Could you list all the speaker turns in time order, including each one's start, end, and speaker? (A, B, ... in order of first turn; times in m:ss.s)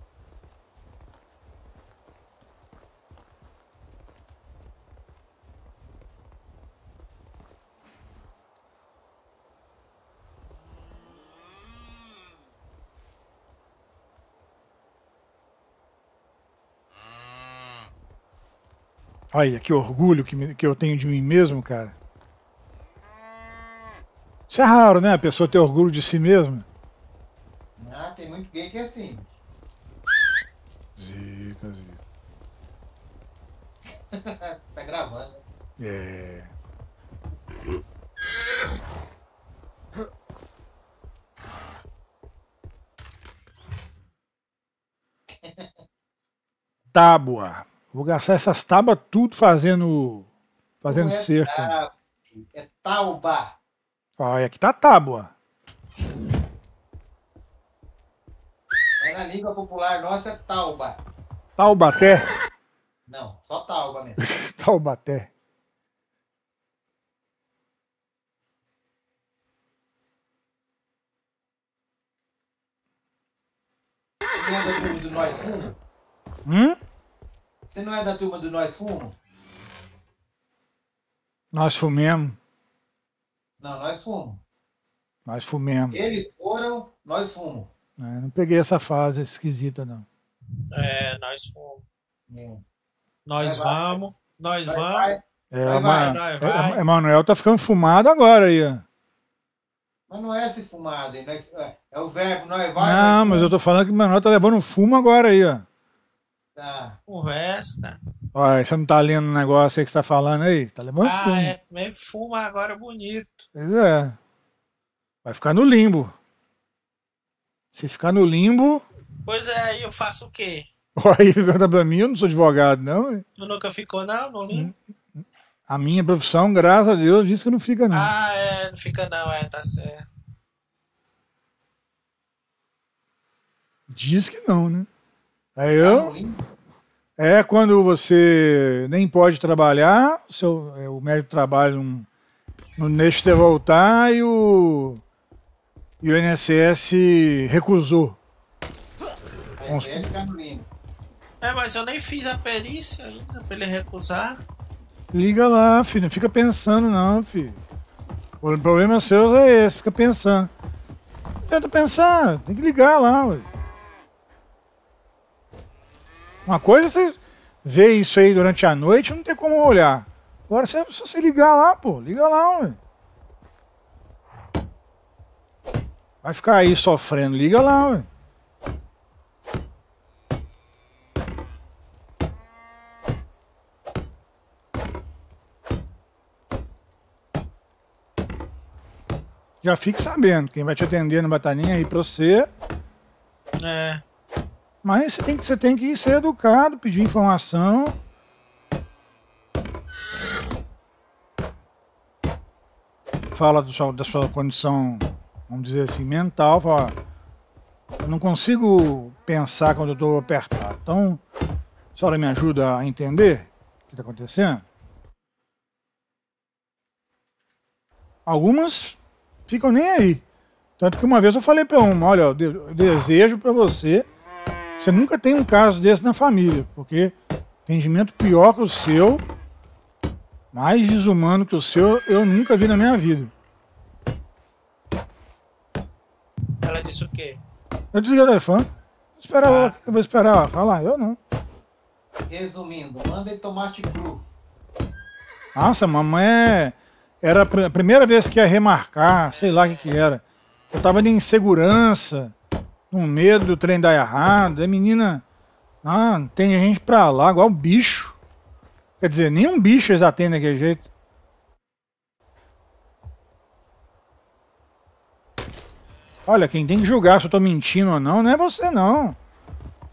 0:19.3-0:21.9 A
0:24.5-0:26.6 A
0:27.8-0:29.3 B
0:31.0-0:32.0 A
0:34.0-0:35.4 B
0:35.8-0:36.5 A
0:45.4-0:45.7 B
0:46.9-0:50.3 A
0:50.8-0:51.7 A
0:50.9-0:53.6 B
0:54.2-0:55.3 A
0:59.0-1:01.0 B
1:01.6-1:02.3 A
1:03.1-1:04.2 B
1:04.2-1:05.3 A
1:14.4-1:15.8 B
1:16.5-1:16.8 A
1:17.7-1:19.2 B
1:21.5-1:22.4 A
1:23.6-1:24.4 B
1:25.2-1:26.0 A
1:25.9-1:27.7 B
1:28.0-1:30.1 A
1:30.7-1:31.9 C
1:32.3-1:32.6 B
1:33.2-1:35.1 C
1:33.4-1:34.0 B
1:34.7-1:36.2 B
1:35.5-1:38.8 A
1:35.8-1:36.8 C
1:40.1-1:43.5 B
1:42.8-1:45.6 A
1:46.6-1:47.0 B
1:47.1-1:48.0 C
1:48.4-1:51.6 A
1:51.0-1:53.5 C
1:53.6-1:54.2 A
1:55.2-1:56.1 A
1:57.7-1:58.8 A
1:59.2-2:00.7 C
2:01.0-2:03.2 A
2:03.4-2:04.7 C
2:05.7-2:08.1 A
2:07.9-2:10.1 C
2:13.9-2:14.9 A
2:15.6-2:16.1 A
2:15.8-2:16.4 B
2:17.2-2:22.1 A
2:22.8-2:25.0 A
2:26.0-2:28.2 A
2:29.6-2:30.7 B
2:29.7-2:30.1 A
2:31.4-2:34.4 C
2:35.1-2:37.6 A
2:38.4-2:40.5 A
2:41.5-2:43.5 A
2:46.5-2:52.8 A
2:56.2-2:58.1 A
3:09.6-3:12.5 A
3:13.6-3:14.0 C
3:14.8-3:18.0 A
3:23.3-3:27.0 A
3:28.0-3:31.2 A
3:32.0-3:34.6 A
3:38.2-3:40.2 A
3:40.8-3:44.1 A
3:44.8-3:47.1 A
3:47.6-3:49.2 A
3:50.5-3:53.3 A
3:56.6-3:57.4 C
3:57.9-4:01.2 A
3:59.4-3:59.9 C
4:02.2-4:04.3 B
4:05.6-4:12.3 A
4:12.9-4:15.2 A
4:15.8-4:18.2 A
4:19.0-4:20.9 A
4:26.2-4:29.2 A